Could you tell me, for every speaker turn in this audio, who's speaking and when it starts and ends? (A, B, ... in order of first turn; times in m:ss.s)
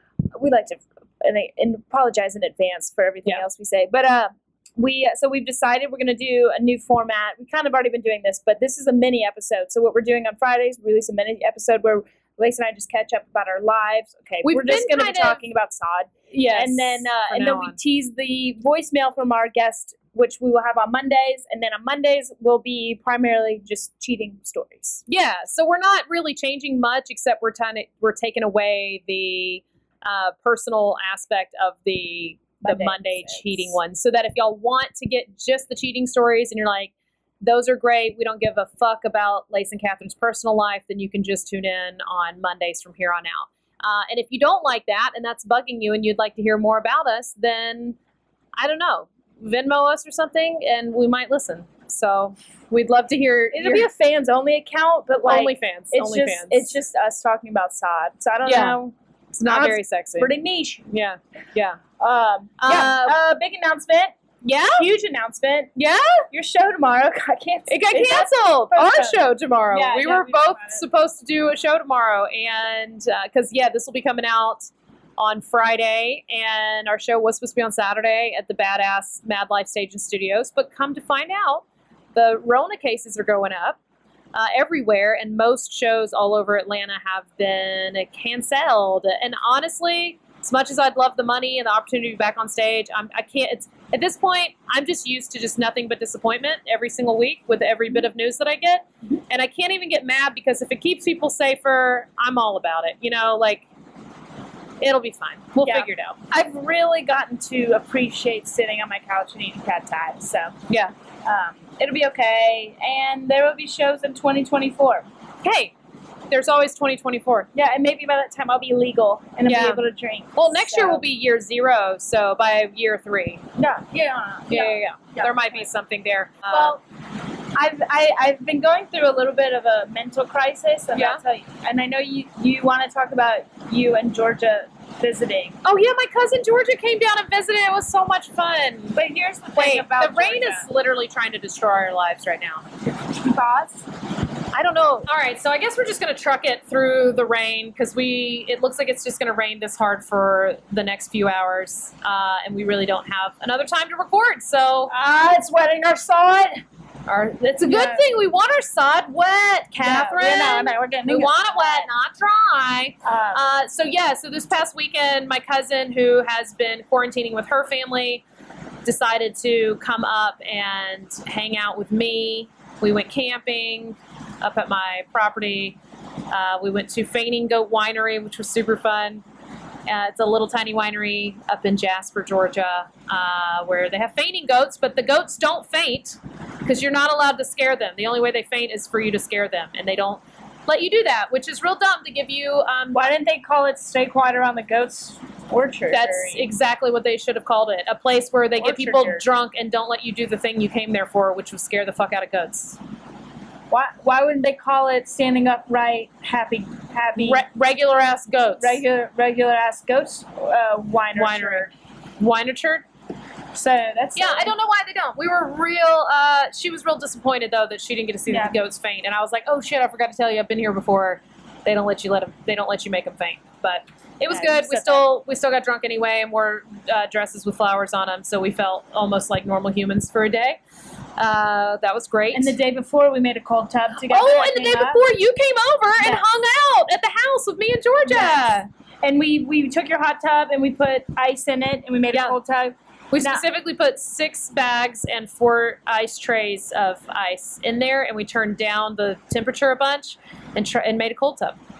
0:00.3-0:25.0 A
0:14.4-0:15.4 B
0:16.3-0:17.8 B
0:25.0-0:36.9 B
0:32.6-0:33.8 A
0:37.4-0:48.0 B
0:48.6-0:53.9 B
0:53.5-0:58.9 A
0:55.2-0:56.7 B
0:58.4-0:58.8 B
0:59.3-1:00.3 B
0:59.4-1:00.8 A
1:00.9-1:01.8 B
1:02.0-1:04.1 A
1:02.6-1:03.2 B
1:04.4-1:04.9 B
1:04.8-1:05.7 A
1:05.8-1:06.2 B
1:06.3-1:10.8 A
1:07.7-1:23.8 B
1:24.3-1:43.6 B
1:44.8-1:46.2 B
1:45.6-1:50.5 A
1:51.2-1:55.0 A
1:55.4-1:55.7 B
1:56.3-1:57.5 B
1:57.5-2:01.0 A
1:59.4-2:03.4 B
2:03.6-2:05.7 A
2:04.5-2:06.8 B
2:06.5-2:06.8 A
2:07.5-2:15.6 A
2:10.9-2:11.2 B
2:15.6-2:19.0 B
2:18.9-2:20.7 A
2:19.6-2:22.6 B
2:23.0-2:23.8 A
2:24.5-2:34.9 B
2:34.9-2:36.6 A
2:37.0-2:48.2 B
2:37.6-2:38.0 A
2:39.8-2:41.9 A
2:43.0-2:43.4 A
2:48.8-2:55.8 B
2:56.3-2:59.2 B
2:59.9-3:13.0 B
3:12.9-3:16.5 A
3:15.9-3:22.8 B
3:18.6-3:19.2 A
3:23.7-3:27.4 A
3:27.2-3:28.8 B
3:28.5-3:31.7 A
3:31.1-3:32.8 B
3:33.5-3:34.5 A
3:34.1-3:50.6 B
3:38.3-3:38.6 A
3:44.3-3:45.1 A
3:51.2-3:52.5 B
3:52.3-3:55.0 A
3:54.1-3:58.6 B
3:56.0-3:56.3 A
3:58.0-4:03.4 A
4:02.1-4:02.4 B
4:03.1-4:11.6 B